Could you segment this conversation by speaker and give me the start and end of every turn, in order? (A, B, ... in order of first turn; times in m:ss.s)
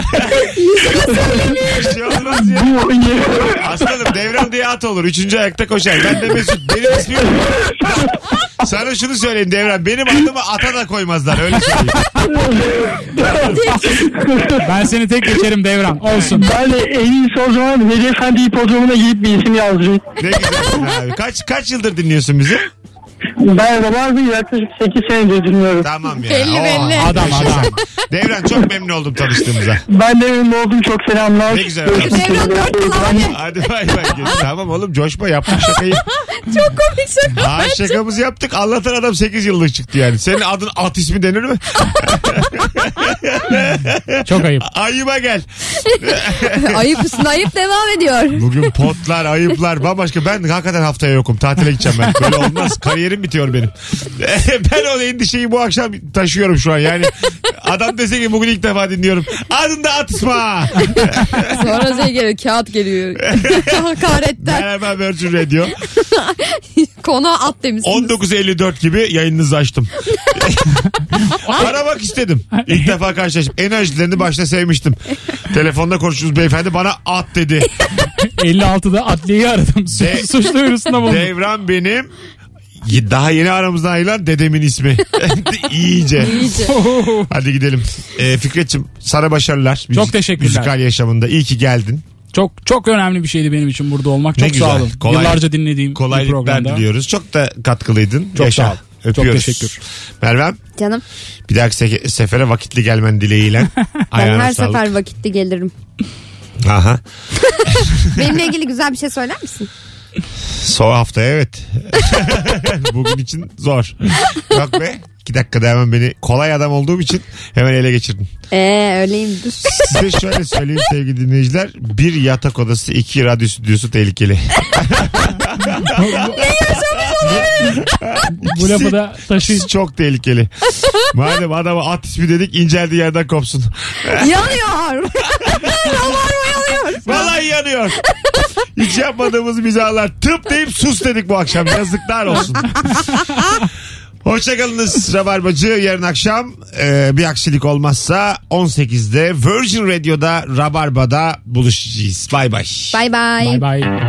0:00.1-0:02.7 A
0:01.1-0:01.5 B
0:02.4-0:03.6 B
0:03.6-0:08.1 A
0:08.6-0:12.0 A
0:12.2-0:14.6 B
0:13.2-0:13.8 A
0:13.5-0:13.9 C
0:14.6-0:16.5 D
0:16.3-0:20.1 B
0:20.2-0:22.7 A
0:23.4-0:25.9 B
0:25.8-0:29.8 A
0:26.2-0:27.8 C
0:27.0-0:27.7 D
0:29.9-0:33.3 B
0:31.5-0:32.4 A
0:31.9-0:33.4 C
0:33.3-0:36.0 A
0:34.0-0:34.4 C
0:36.2-0:38.0 C
0:37.4-0:46.8 A
0:44.2-0:44.7 D
0:46.5-0:48.4 C
0:48.4-1:01.7 A
1:01.5-1:04.6 C
1:03.3-1:05.7 A
1:06.1-1:08.1 C
1:07.8-1:10.7 A
1:11.4-1:15.0 A
1:15.5-1:17.7 A
1:18.4-1:21.3 D
1:19.9-1:20.3 A
1:21.0-1:22.1 A
1:22.8-1:26.6 A
1:26.2-1:26.7 C
1:26.6-1:27.3 D
1:27.3-1:32.0 A
1:29.9-1:30.7 D
1:32.3-1:36.8 D
1:34.4-1:40.6 A
1:38.4-1:39.8 D
1:40.8-1:41.0 C
1:41.5-1:44.9 A
1:44.1-1:45.7 C
1:46.6-1:47.0 A
1:47.7-1:48.2 A
1:48.1-1:49.7 C
1:50.5-1:58.3 A
1:58.5-2:00.0 C
1:59.8-2:10.5 A
2:05.8-2:06.5 D
2:06.4-2:07.4 C
2:07.2-2:07.8 D
2:08.4-2:09.7 D
2:11.1-2:14.4 A
2:14.1-2:17.4 C
2:17.0-2:18.0 A
2:18.8-2:22.7 A
2:24.2-2:33.0 A
2:32.9-2:33.6 C
2:33.4-2:33.9 D